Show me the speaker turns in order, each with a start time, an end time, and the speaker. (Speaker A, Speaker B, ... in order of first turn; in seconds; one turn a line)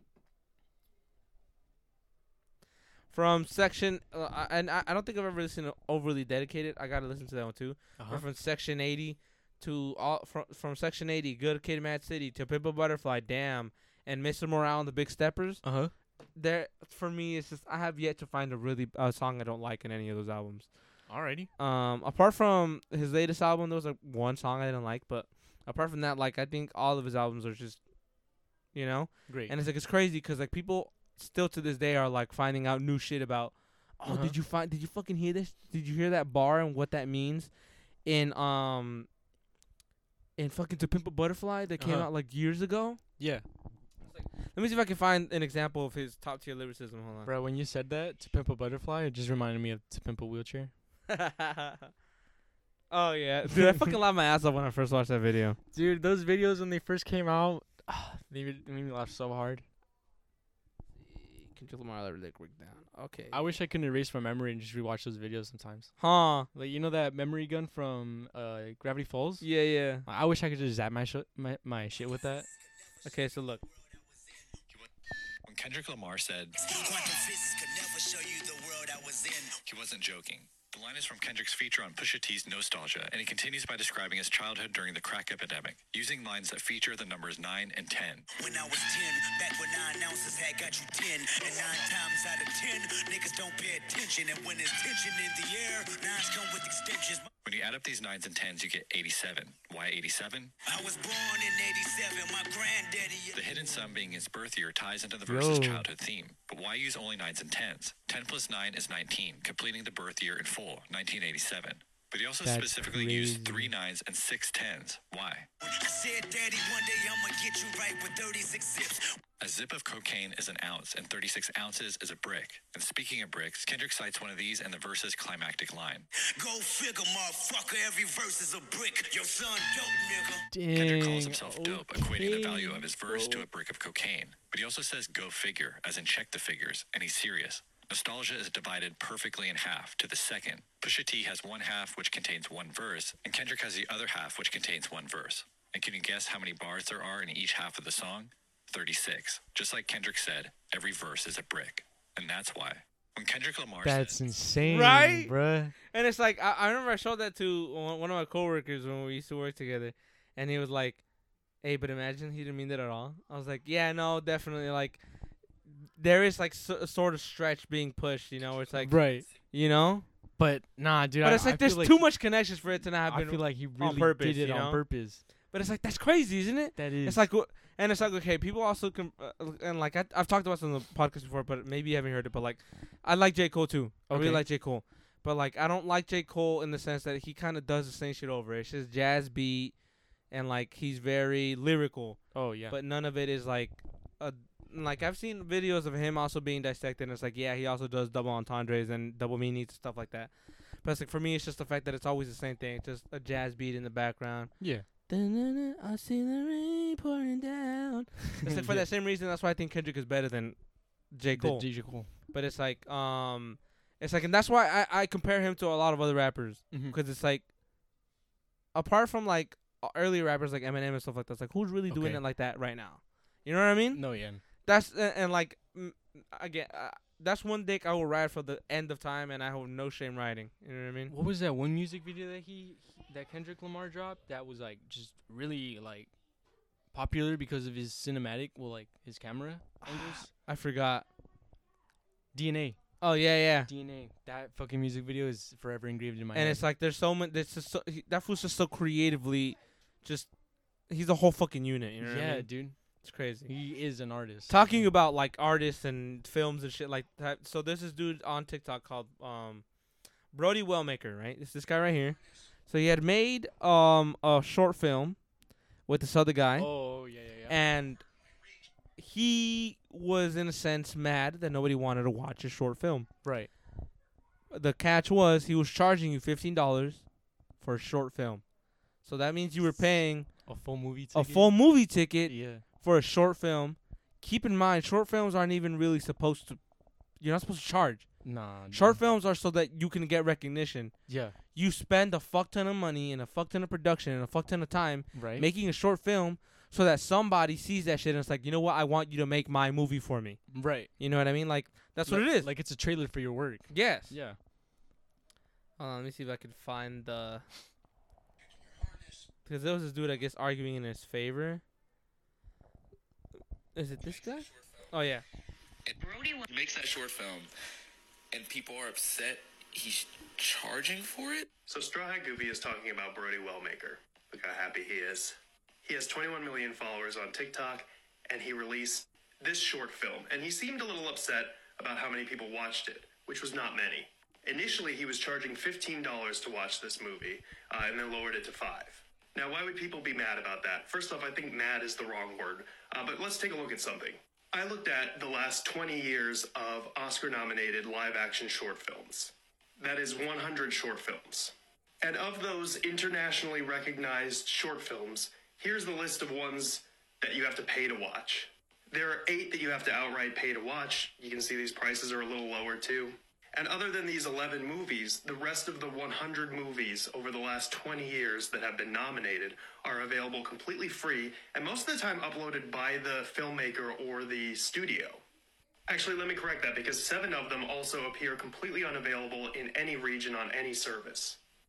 Speaker A: 3.1-15.6
Speaker B: 8.0-8.2
Speaker B: 15.6-15.9
Speaker A: 16.3-27.8
Speaker B: 21.1-21.5
Speaker A: 28.7-37.5
Speaker B: 29.3-29.5
Speaker B: 34.0-34.4
Speaker A: 38.0-39.1
Speaker A: 40.4-43.0
Speaker B: 41.8-42.1
Speaker B: 43.2-43.4
Speaker A: 44.1-47.3
Speaker B: 47.2-50.7
Speaker A: 51.1-51.9
Speaker A: 52.9-55.6
Speaker B: 53.5-53.9
Speaker B: 55.7-59.6
Speaker A: 61.0-63.4
Speaker B: 63.3-66.0
Speaker A: 66.0-66.5
Speaker B: 66.5-72.5
Speaker A: 69.4-70.0
Speaker A: 73.0-73.6
Speaker C: 75.5-76.6
Speaker D: 76.6-79.6
Speaker C: 79.6-88.3
Speaker D: 88.3-97.3
Speaker C: 97.4-100.5
Speaker D: 100.6-103.6
Speaker C: 103.3-115.5
Speaker B: 105.3-105.8
Speaker B: 112.4-113.7
Speaker D: 115.6-119.2
Speaker C: 119.4-126.1
Speaker D: 126.2-130.4
Speaker B: 130.5-133.5
Speaker C: 130.7-154.2
Speaker B: 153.8-155.7
Speaker A: 154.6-155.3
Speaker A: 155.8-161.0
Speaker A: 161.6-165.0
Speaker A: 166.0-170.1
Speaker B: 168.8-169.3
Speaker B: 170.4-172.1
Speaker A: 171.2-174.8
Speaker B: 173.1-175.2
Speaker A: 175.5-189.7
Speaker B: 176.8-177.3
Speaker B: 184.1-184.4
Speaker A: 190.3-200.3
Speaker B: 192.3-192.8
Speaker A: 200.8-204.5
Speaker B: 204.6-204.8
Speaker A: 205.1-217.5
Speaker B: 208.4-208.8
Speaker B: 211.3-212.1
Speaker B: 216.7-217.0
Speaker A: 218.7-224.0
Speaker B: 221.9-222.2
Speaker B: 223.9-224.4
Speaker A: 224.6-231.1
Speaker B: 231.1-236.1
Speaker B: 236.9-240.3
Speaker A: 239.8-241.1
Speaker B: 242.3-242.8
Speaker A: 243.0-243.7
Speaker B: 243.6-246.6
Speaker A: 246.3-250.3
Speaker A: 250.9-252.5
Speaker B: 252.0-252.8
Speaker A: 253.0-253.5
Speaker B: 253.4-254.9
Speaker A: 254.5-259.6
Speaker A: 260.3-265.2
Speaker A: 265.9-266.7
Speaker B: 266.6-267.6
Speaker A: 267.5-268.0
Speaker A: 269.0-273.1
Speaker B: 273.2-273.5
Speaker A: 274.5-277.0
Speaker A: 277.6-278.4
Speaker A: 279.0-280.3
Speaker B: 280.4-281.5
Speaker A: 281.1-286.6
Speaker B: 282.2-282.6
Speaker A: 287.2-290.9
Speaker B: 288.2-289.0
Speaker B: 291.1-291.4
Speaker A: 291.5-302.5
Speaker B: 295.1-295.5
Speaker B: 300.5-300.9
Speaker B: 302.1-304.4
Speaker A: 303.7-304.1
Speaker A: 305.8-307.4
Speaker A: 309.4-311.6
Speaker A: 313.7-315.2
Speaker E: 315.9-317.5
Speaker E: 318.3-321.5
Speaker F: 321.7-375.2
Speaker F: 375.9-381.4